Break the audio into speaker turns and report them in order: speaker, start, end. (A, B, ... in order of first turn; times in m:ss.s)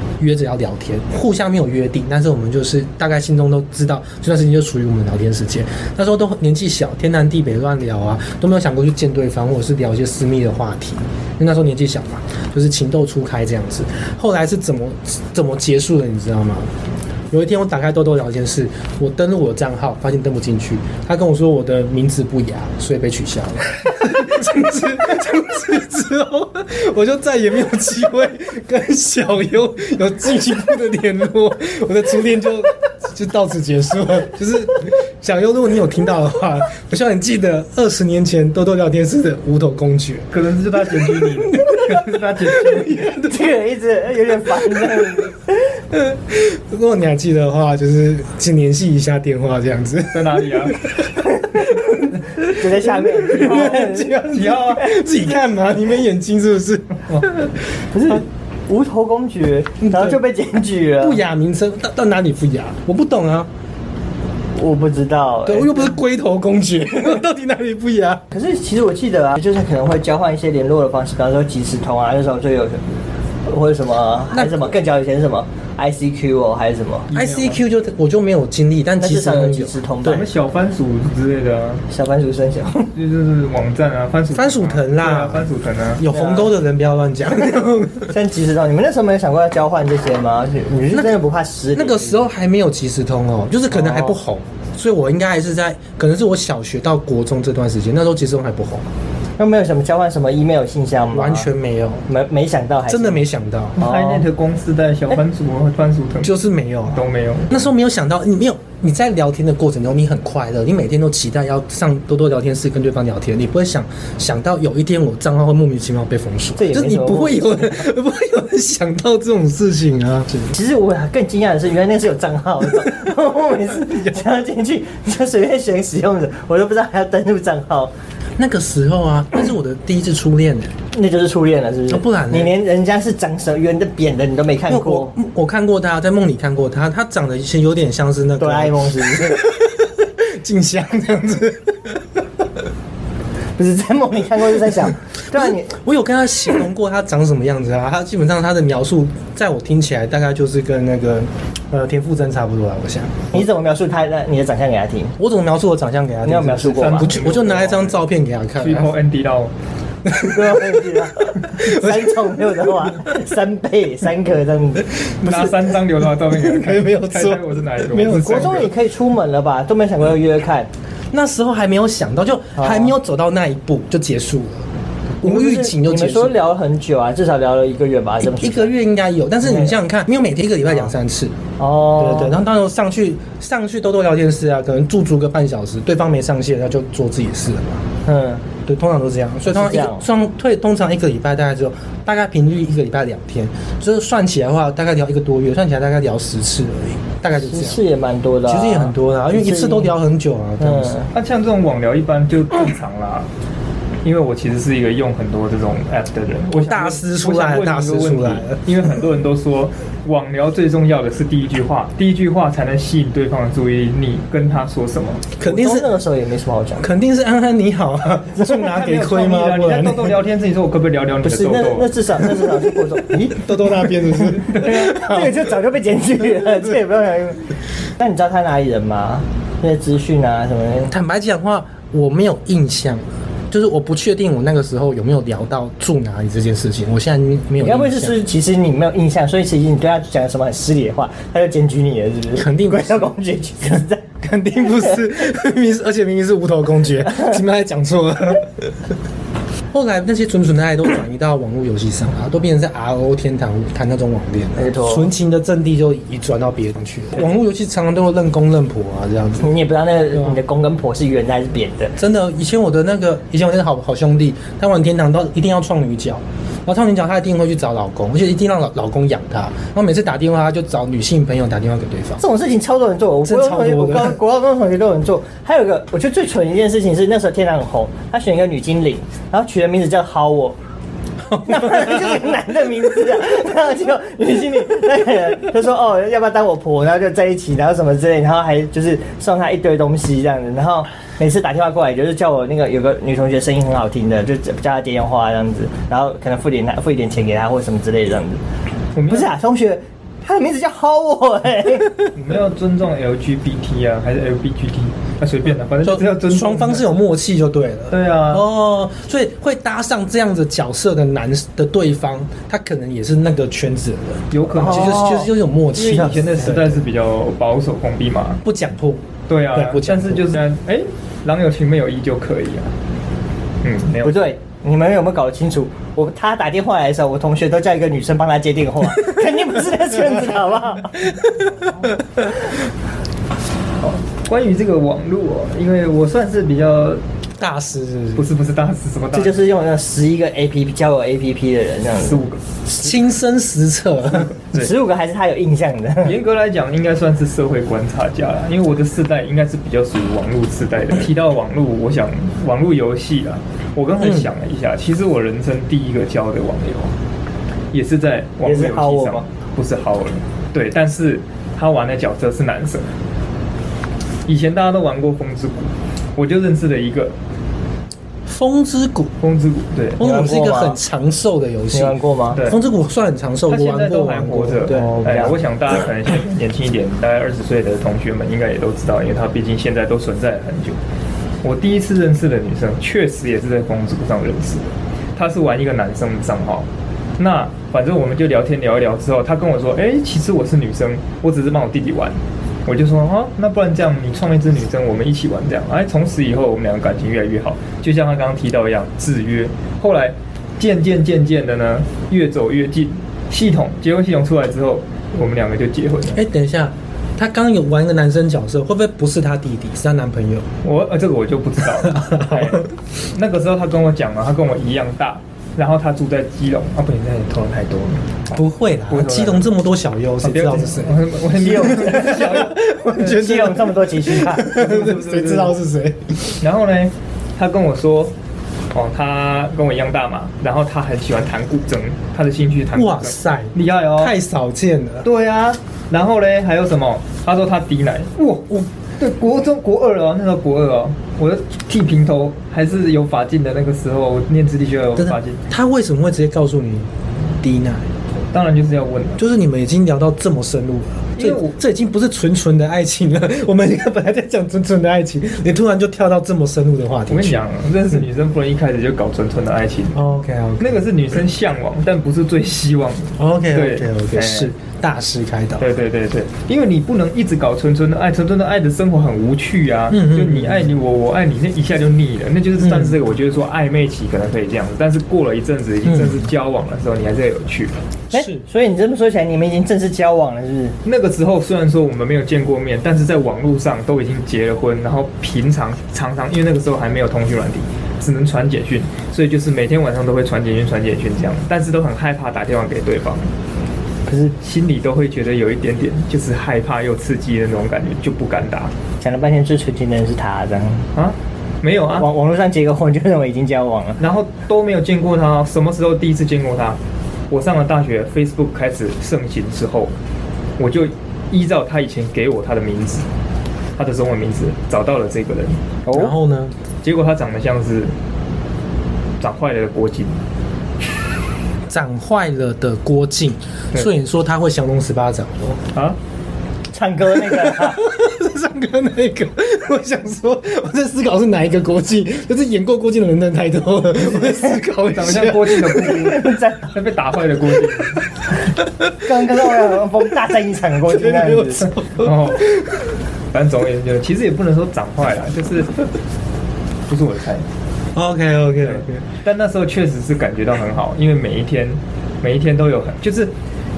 0:00.2-0:16.7 A
0:17.3-0:40.3 A
0:40.3-0:43.1 B
0:41.0-0:43.2 A
0:43.0-0:45.7 C
0:45.9-0:51.0 A
0:50.1-0:50.8 B
0:51.4-0:51.7 C
0:51.5-0:57.6 A
0:52.4-0:54.2 C
0:54.3-0:55.0 B
0:57.9-1:01.2 C
0:59.8-1:00.2 A
1:01.0-1:03.5 A
1:04.6-1:05.9 C
1:05.4-1:08.2 A
1:08.3-1:17.2 C
1:14.3-1:14.7 A
1:17.1-1:20.2 A
1:17.1-1:17.6 B
1:19.0-1:20.3 C
1:20.0-1:21.8 B
1:21.9-1:22.9 C
1:22.9-1:26.0 B
1:24.3-1:28.2 A
1:26.1-1:26.5 C
1:28.1-1:32.3 C
1:30.9-1:31.2 A
1:31.8-1:38.9 A
1:33.7-1:34.2 C
1:39.4-1:41.5 C
1:41.1-1:42.1 A
1:42.1-1:43.2 C
1:42.9-1:43.8 A
1:43.8-1:46.4 B
1:43.8-1:44.2 C
1:46.2-2:00.5 A
1:46.9-1:47.6 B
1:56.6-1:57.8 C
2:00.5-2:07.9 C
2:08.4-2:10.8 A
2:10.9-2:15.2 C
2:11.9-2:12.5 A
2:14.7-2:22.2 A
2:18.4-2:19.4 C
2:23.6-2:25.8 C
2:25.3-2:33.4 A
2:33.3-2:35.2 C
2:35.2-2:38.9 A
2:36.2-2:37.1 C
2:36.6-2:38.0 B
2:38.6-2:39.5 B
2:40.0-2:42.9 A
2:40.2-2:44.9 C
2:45.0-2:45.6 A
2:45.2-2:48.7 B
2:46.3-2:48.7 A
2:48.1-2:50.7 C
2:51.1-2:54.6 A
2:52.6-2:52.9 C
2:55.2-2:56.4 A
2:55.2-2:58.7 C
2:58.4-3:01.4 A
3:01.6-3:02.4 C
3:02.0-3:07.9 A
3:08.1-3:08.4 C
3:08.6-3:17.8 A
3:09.5-3:10.0 C
3:17.3-3:19.9 C
3:18.5-3:21.0 A
3:20.6-3:21.1 C
3:21.1-3:23.3 B
3:24.0-3:35.2 B
3:26.5-3:28.6 A
3:35.4-3:35.9 A
3:35.4-3:36.9 C
3:36.8-3:40.2 A
3:38.5-3:41.9 B
3:41.2-3:43.5 C
3:43.3-3:45.5 A
3:44.3-3:50.9 C
3:50.9-3:58.2 A
3:57.6-4:04.1 C
4:02.4-4:03.1 A
4:04.2-4:08.9 A
4:09.7-4:19.5 A
4:14.6-4:15.1 C
4:19.4-4:22.0 C
4:22.0-4:32.2 A
4:32.2-4:40.6 C
4:33.3-4:34.2 A
4:41.3-4:58.4 C
4:41.4-4:42.0 A
4:59.0-4:59.3 B
4:59.1-5:02.0 C
5:02.1-5:06.8 B
5:05.8-5:16.8 A
5:07.9-5:08.4 B
5:14.3-5:18.4 B
5:14.5-5:15.3 C
5:18.4-5:20.3 A
5:19.3-5:22.7 B
5:23.6-5:24.3 B
5:24.0-5:31.2 C
5:33.8-5:37.0 B
5:37.4-5:38.2 A
5:38.2-5:39.5 B
5:39.1-5:42.2 C
5:42.0-5:42.4 B
5:42.7-5:44.3 A
5:44.2-5:44.7 B
5:44.5-5:46.2 C
5:46.0-5:56.9 B
5:57.7-6:02.9 B
5:58.4-5:59.2 C
6:04.3-6:07.2 B
6:08.3-6:09.1 A
6:09.2-6:10.0 B
6:10.0-6:15.4 A
6:10.0-6:10.8 C
6:11.7-6:12.4 C
6:12.4-6:12.6 B
6:13.5-6:20.8 B
6:21.4-6:26.7 B
6:27.2-6:46.2 B
6:46.1-6:50.5 A
6:50.6-6:58.4 B
6:51.8-6:52.7 A
6:58.3-7:01.0 A
6:58.9-6:59.5 B
7:00.2-7:03.2 B
7:01.3-7:02.4 C
7:01.8-7:06.4 A
7:03.0-7:04.5 C
7:04.4-7:05.6 B
7:06.4-7:08.1 B
7:08.7-7:14.1 B
7:12.8-7:15.1 A
7:15.0-7:25.4 B
7:25.0-7:27.9 A
7:28.3-7:29.2 B
7:29.2-7:37.4 A
7:31.2-7:31.6 B
7:37.1-7:40.0 B
7:39.9-7:40.8 A
7:40.6-7:44.5 B
7:43.2-7:45.7 A
7:45.6-7:57.8 B
7:49.9-7:50.7 A
7:58.1-7:58.4 A
7:58.1-8:00.8 C
8:00.8-8:13.3 B
8:14.1-8:14.3 C
8:14.4-8:18.7 B
8:19.0-8:20.9 C
8:21.0-8:22.1 B
8:21.9-8:24.0 C
8:24.0-8:26.8 B
8:27.3-8:29.9 B
8:30.6-8:33.1 B
8:33.8-8:35.8 B
8:35.9-8:36.5 A
8:36.8-8:37.9 B
8:39.2-8:40.2 B
8:41.7-8:45.6 A
8:46.7-8:47.8 C
8:47.2-8:56.0 A
8:54.1-8:54.5 C
8:54.9-8:58.0 B
8:55.7-8:56.7 C
8:59.0-9:01.7 C
9:00.9-9:02.8 A
9:02.0-9:02.5 B
9:03.3-9:05.7 B
9:06.9-9:07.5 B
9:08.0-9:09.0 A
9:08.6-9:13.3 B